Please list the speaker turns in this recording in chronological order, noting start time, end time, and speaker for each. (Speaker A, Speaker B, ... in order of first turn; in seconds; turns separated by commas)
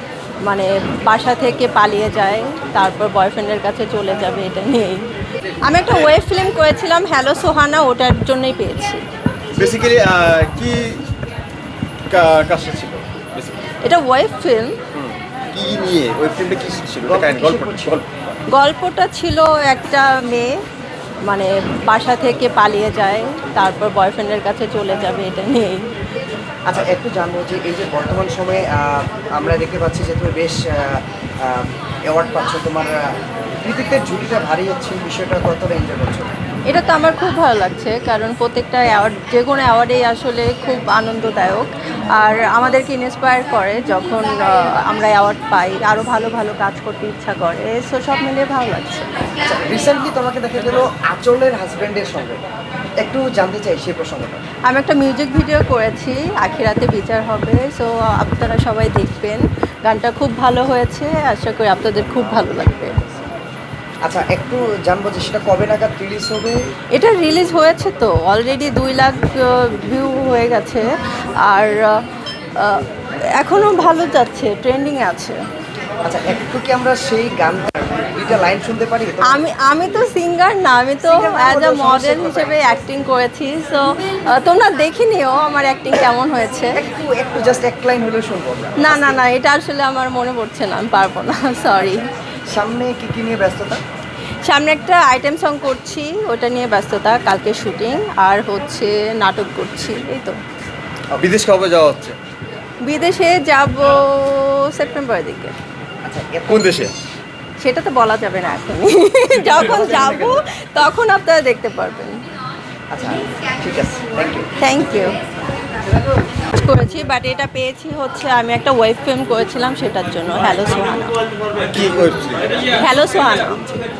Speaker A: 0.4-5.0, Speaker A: 5.6-9.0, Speaker B: 9.5-11.0, Speaker B: 12.1-13.6, Speaker A: 13.8-14.8, Speaker B: 14.9-18.3, Speaker C: 17.0-18.0, Speaker A: 18.5-20.6, Speaker A: 21.2-25.9, Speaker C: 26.6-33.0, Speaker C: 33.6-36.4, Speaker A: 36.7-49.0, Speaker C: 49.4-52.4, Speaker C: 53.0-54.4, Speaker A: 54.7-62.9, Speaker C: 64.0-66.6, Speaker A: 66.9-70.9, Speaker A: 71.4-72.0, Speaker A: 72.6-72.8, Speaker A: 73.3-75.4, Speaker C: 76.0-79.4, Speaker A: 79.2-86.8, Speaker C: 81.0-82.6, Speaker C: 86.8-89.2, Speaker A: 88.8-92.0, Speaker C: 92.5-93.8, Speaker A: 94.4-100.4, Speaker B: 101.2-102.2, Speaker A: 102.8-105.5, Speaker C: 106.0-106.7, Speaker B: 106.5-106.9, Speaker A: 107.6-112.1, Speaker C: 109.5-110.4, Speaker C: 112.9-114.5, Speaker A: 114.6-115.1, Speaker A: 116.4-121.1, Speaker B: 121.7-122.6, Speaker A: 122.7-123.6